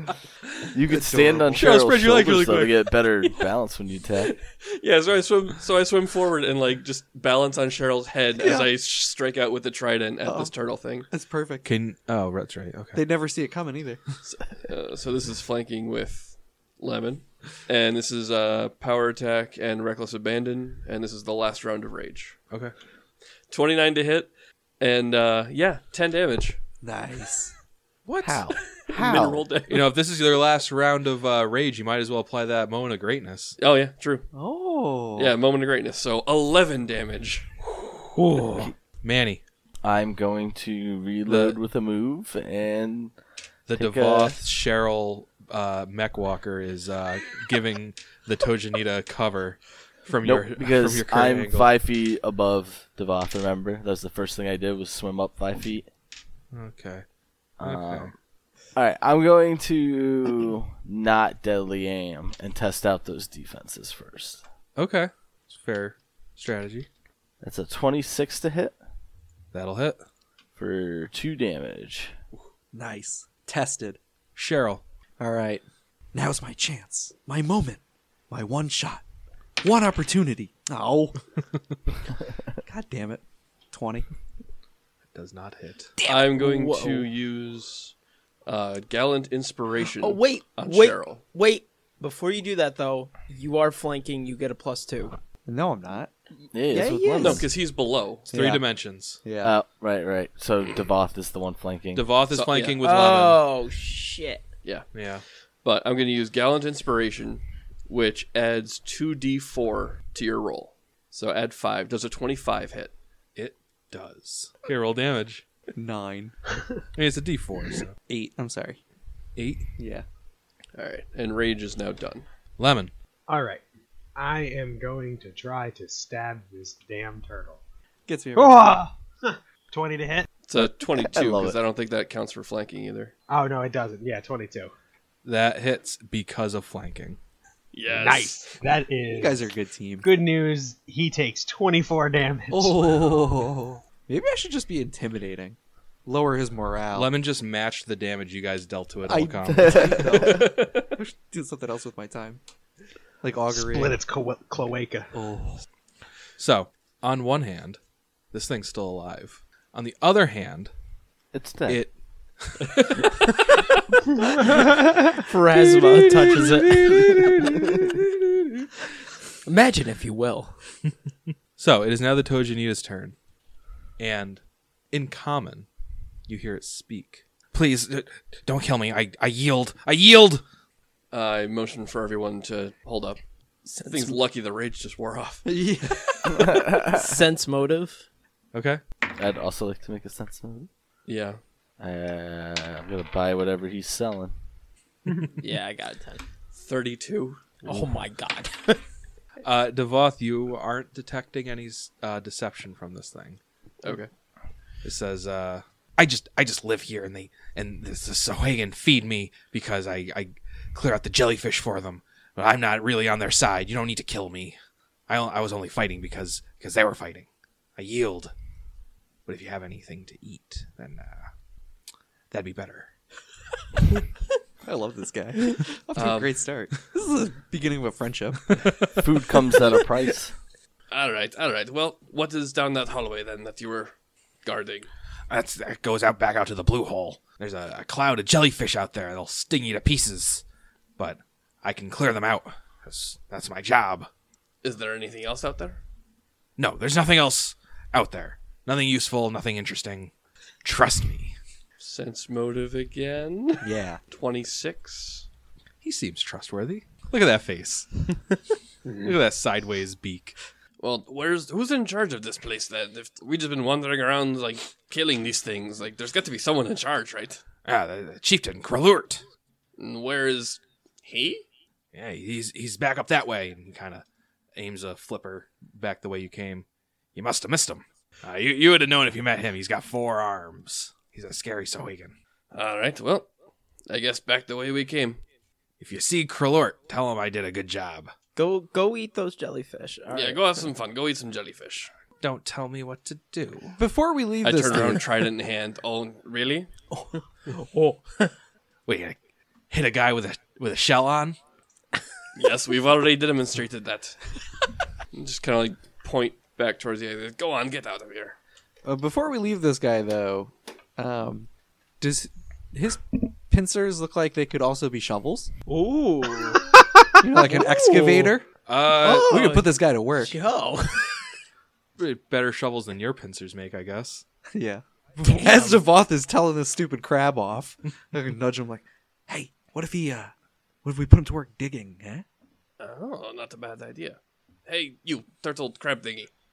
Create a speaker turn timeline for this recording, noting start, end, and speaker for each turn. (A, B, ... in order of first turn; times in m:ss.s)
0:00.7-0:04.4 A
0:00.9-0:01.6 B
0:01.5-0:02.9 C
0:04.5-0:11.1 D
0:08.4-0:08.7 B
0:10.3-0:10.5 B
0:11.1-0:11.7 B
0:11.6-0:13.0 C
0:12.9-0:14.0 B
0:14.3-0:22.4 D
0:23.5-0:26.6 D
0:26.8-0:27.5 B
0:28.1-0:28.5 C
0:28.2-0:29.5 A
0:28.8-0:29.9 D
0:29.7-0:33.6 C
0:33.6-0:34.3 D
0:34.3-0:35.4 B
0:35.2-0:37.5 D
0:37.8-0:39.4 C
0:39.8-0:43.1 A
0:41.3-0:41.6 C
0:43.7-0:51.7 C
0:43.7-0:44.4 A
0:50.2-0:55.9 A
0:56.5-0:57.0 C
0:57.6-0:58.1 A
0:57.6-0:58.1 C
0:58.8-1:04.4 A
1:04.8-1:06.9 C
1:07.4-1:08.8 A
1:09.5-1:10.0 C
1:10.6-1:12.1 A
1:12.7-1:14.0 B
1:14.4-1:14.8 C
1:15.2-1:19.0 B
1:19.6-1:21.2 B
1:22.7-1:24.1 B
1:25.1-1:25.9 C
1:26.0-1:27.1 E
1:26.0-1:27.9 D
1:28.5-1:31.2 D
1:30.0-1:35.2 E
1:35.5-1:36.1 B
1:36.5-1:37.5 A
1:36.6-1:37.4 E
1:37.2-1:38.3 D
1:38.3-1:39.2 C
1:38.3-1:38.6 B
1:39.2-1:39.5 B
1:39.4-1:42.1 A
1:41.9-1:43.4 C
1:42.3-1:42.8 D
1:42.8-1:44.4 E
1:44.9-1:45.2 C
1:45.6-1:52.9 D
1:53.4-1:55.5 C
1:55.8-1:56.4 B
1:57.0-1:57.9 C
1:58.1-1:58.8 B
1:59.4-1:59.7 C
1:59.8-2:00.1 B
2:00.8-2:02.3 D
2:02.6-2:02.9 C
2:03.3-2:03.6 F
2:04.2-2:07.6 F
2:08.1-2:08.9 B
2:08.4-2:10.3 F
2:10.5-2:13.1 D
2:10.6-2:11.6 A
2:13.3-2:14.7 F
2:15.2-2:17.2 C
2:17.7-2:18.6 D
2:17.9-2:19.4 F
2:19.2-2:20.1 B
2:20.0-2:23.2 F
2:22.5-2:27.1 B
2:26.9-2:30.0 C
2:29.0-2:32.4 B
2:29.6-2:30.5 A
2:30.1-2:31.0 D
2:33.2-2:34.0 B
2:33.5-2:35.1 F
2:35.1-2:35.6 B
2:36.4-2:37.8 C
2:38.3-2:40.7 C
2:41.3-2:41.8 A
2:41.7-2:43.2 C
2:45.2-2:47.4 E
2:45.6-2:48.1 C
2:49.4-2:50.6 E
2:51.6-2:53.2 C
2:54.0-2:55.7 C
2:56.3-3:00.4 C
3:01.1-3:03.2 D
3:03.7-3:04.2 E
3:03.8-3:05.6 D
3:05.4-3:06.6 B
3:06.4-3:07.1 A
3:06.9-3:08.1 E
3:08.5-3:08.8 C
3:09.1-3:10.7 A
3:11.1-3:11.4 D
3:11.8-3:14.3 A
3:15.4-3:16.2 E
3:16.5-3:17.6 D
3:17.6-3:18.8 E
3:19.4-3:23.4 C
3:23.8-3:24.1 D
3:24.8-3:34.6 C
3:35.1-3:38.3 C
3:39.3-3:41.2 C
3:42.3-3:42.9 C
3:44.6-3:48.5 B
3:46.0-3:46.4 D
3:49.0-3:50.3 A
3:50.9-3:54.9 D
3:55.3-4:00.4 C
4:01.0-4:04.1 C
4:04.6-4:05.8 D
4:06.6-4:10.1 C
4:10.6-4:11.4 C
4:11.8-4:15.3 D
4:13.6-4:14.0 B
4:15.8-4:18.4 C
4:19.0-4:20.4 C
4:20.8-4:27.4 D
4:27.6-4:29.2 C
4:29.8-4:31.4 D
4:31.9-4:42.2 C
4:42.5-4:43.3 D
4:43.9-4:45.2 D
4:45.8-4:48.1 C
4:48.4-4:50.5 E
4:50.1-4:51.9 D
4:52.2-4:53.8 C
4:53.8-4:55.1 B
4:54.4-4:56.7 D
4:57.0-4:58.3 E
4:58.9-4:59.2 C
4:59.7-5:01.4 C
5:02.3-5:04.4 D
5:05.1-5:08.4 D
5:08.8-5:11.5 B
5:12.0-5:15.5 B
5:15.7-5:16.7 E
5:17.2-5:20.4 B
5:17.5-5:18.3 E
5:18.7-5:19.5 C
5:19.0-5:21.3 E
5:22.0-5:24.2 C
5:24.5-5:30.3 B
5:30.8-5:32.2 B
5:32.8-5:36.3 D